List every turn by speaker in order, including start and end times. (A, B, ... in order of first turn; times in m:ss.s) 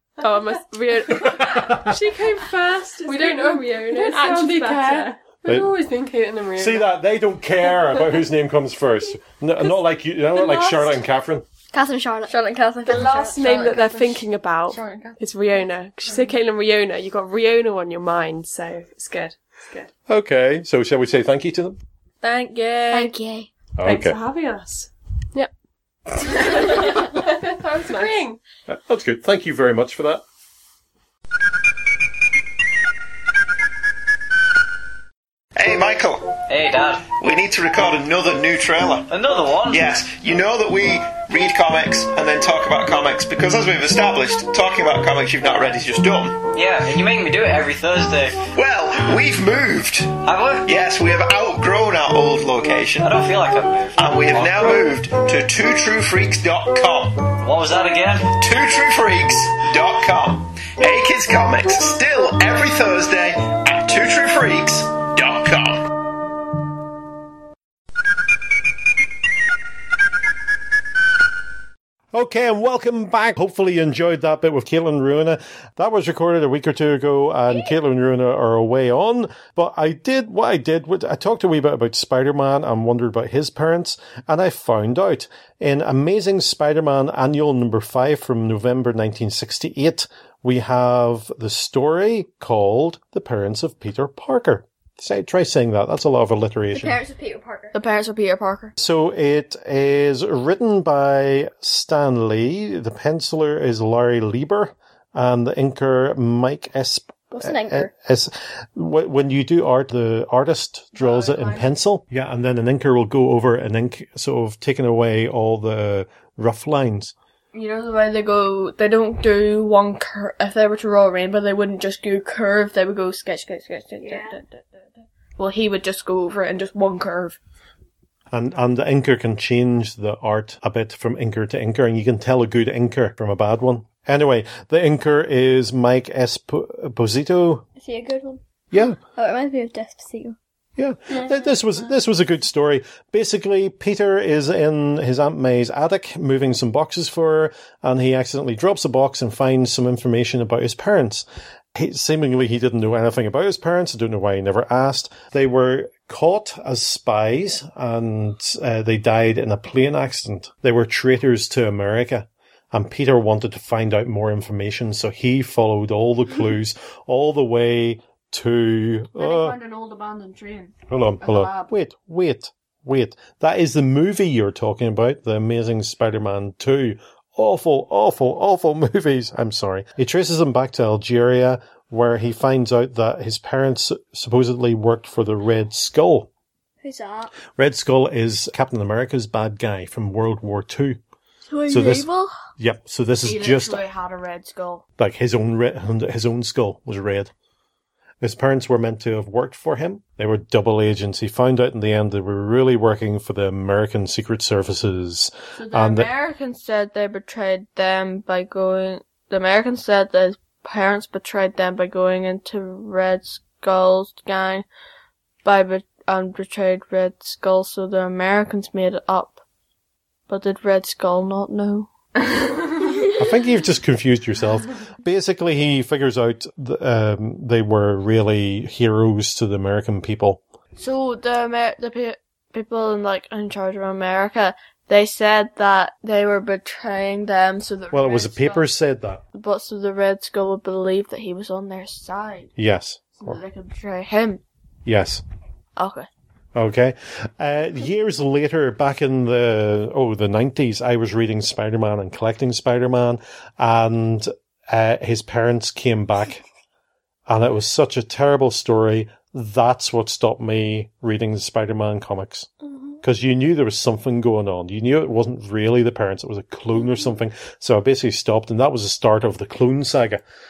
0:00.2-0:05.2 A
0:01.2-0:01.9 B
0:02.1-0:06.9 C
0:05.4-0:05.8 B
0:06.6-0:11.4 B
0:10.3-0:11.0 A
0:11.7-0:12.3 D
0:12.3-0:15.2 E
0:12.9-0:19.9 A
0:20.1-0:21.8 B
0:22.2-0:23.2 E
0:22.9-0:23.5 D
0:23.8-0:24.2 B
0:23.8-0:25.5 A
0:26.4-0:28.4 A
0:26.7-0:28.4 C
0:28.7-0:30.2 B
0:35.6-0:36.4 F
0:36.5-0:37.0 G
0:37.1-0:39.1 F
0:39.1-0:39.8 G
0:39.7-0:46.4 F
0:46.5-0:48.4 G
0:48.5-0:53.2 F
0:50.2-0:50.6 G
0:53.0-0:54.8 G
0:54.0-0:57.3 F
0:57.4-0:58.3 G
0:58.2-1:05.8 F
1:12.1-1:37.0 B
1:36.7-1:37.8 D
1:37.7-1:38.8 E
1:38.8-1:57.1 B
1:47.3-1:47.9 D
1:51.0-1:51.7 E
1:57.5-2:04.8 E
2:04.0-2:04.4 D
2:05.4-2:07.4 E
2:08.3-2:17.7 B
2:17.8-2:18.4 D
2:18.7-2:19.0 B
2:19.0-2:20.4 D
2:20.8-2:49.6 B
2:49.2-2:51.7 E
2:50.9-3:06.3 B
3:06.8-3:07.3 D
3:07.6-3:11.0 B
3:11.5-3:12.3 D
3:11.7-3:13.8 B
3:13.2-3:14.8 E
3:15.0-3:17.3 B
3:18.2-3:26.1 B
3:25.6-3:34.6 E
3:35.4-3:39.4 E
3:40.3-3:42.9 E
3:43.2-3:50.4 B
3:50.8-3:58.7 E
3:57.9-3:59.2 B
3:59.3-4:02.5 E
4:02.6-4:03.4 B
4:03.2-4:04.4 E
4:04.9-4:05.2 B
4:05.8-4:06.1 E
4:06.6-4:16.4 B
4:17.3-4:22.5 B
4:23.0-4:30.2 B